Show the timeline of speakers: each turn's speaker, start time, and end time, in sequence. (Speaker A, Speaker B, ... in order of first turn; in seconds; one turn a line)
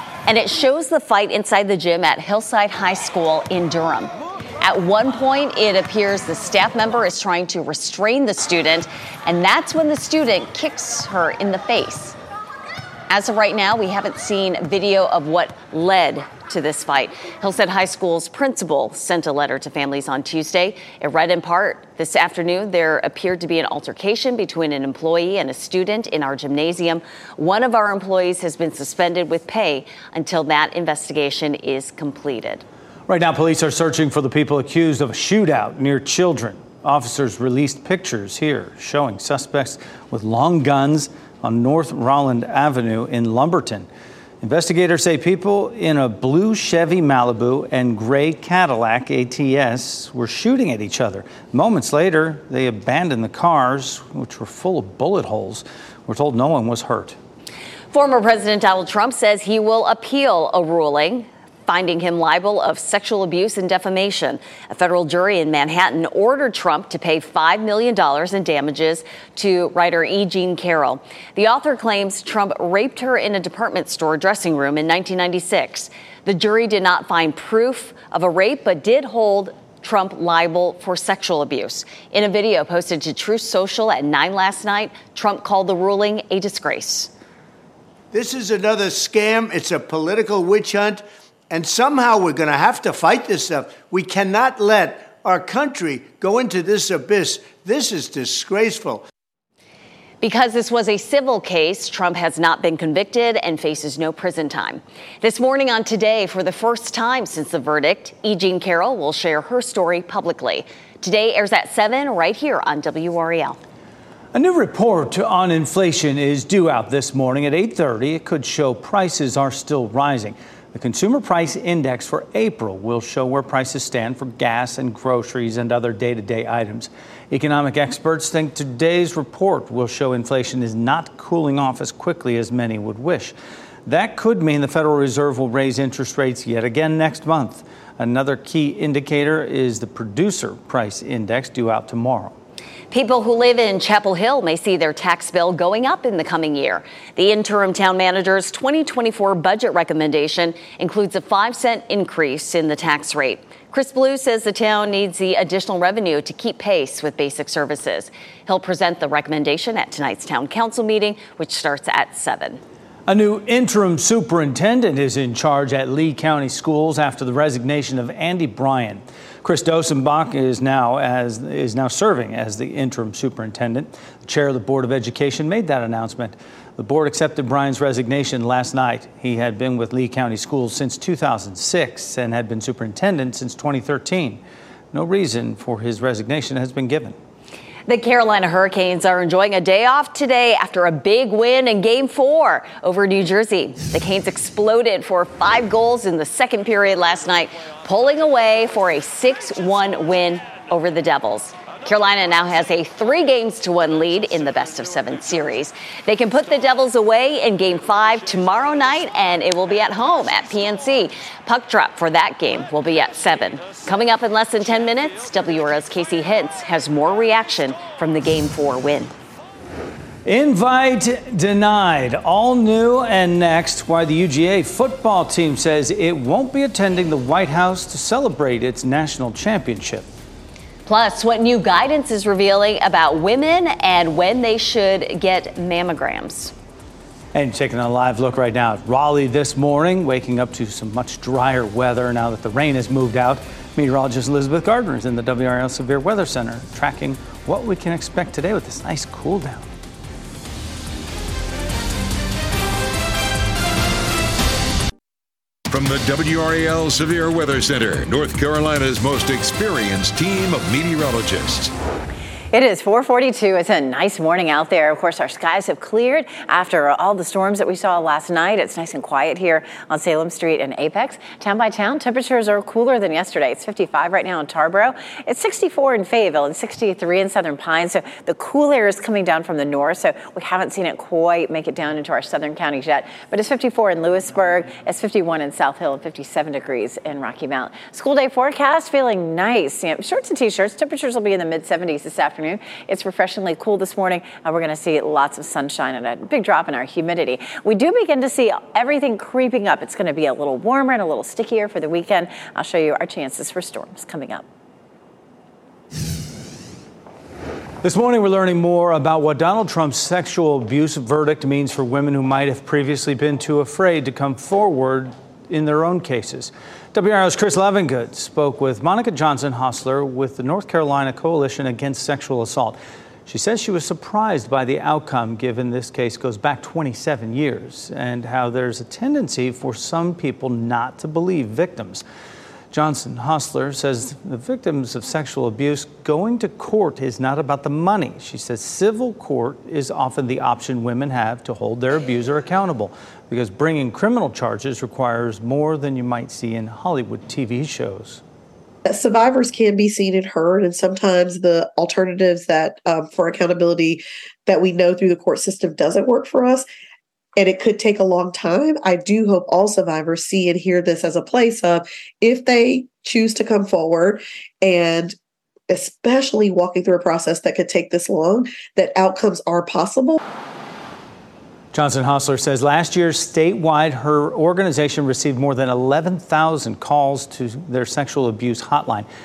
Speaker A: 0.3-12.2
Speaker A: 13.1-32.6
Speaker B: 33.1-43.9
Speaker B: 44.4-57.1
Speaker A: 57.9-87.1
Speaker C: 88.1-99.1
Speaker A: 100.2-113.6
Speaker B: 114.3-133.3
Speaker B: 133.8-142.3
Speaker A: 142.9-162.6
Speaker B: 163.1-184.4
Speaker B: 184.9-187.2
Speaker A: 187.8-219.1
Speaker B: 220.2-230.1
Speaker A: 230.8-236.5
Speaker B: 237.3-249.7
Speaker D: 255.7-261.7
Speaker E: 262.5-304.4
Speaker B: 307.8-332.0
Speaker B: 332.7-348.2
Speaker F: 348.8-356.6
Speaker F: 357.4-365.1
Speaker F: 365.7-370.2
Speaker B: 371.7-379.1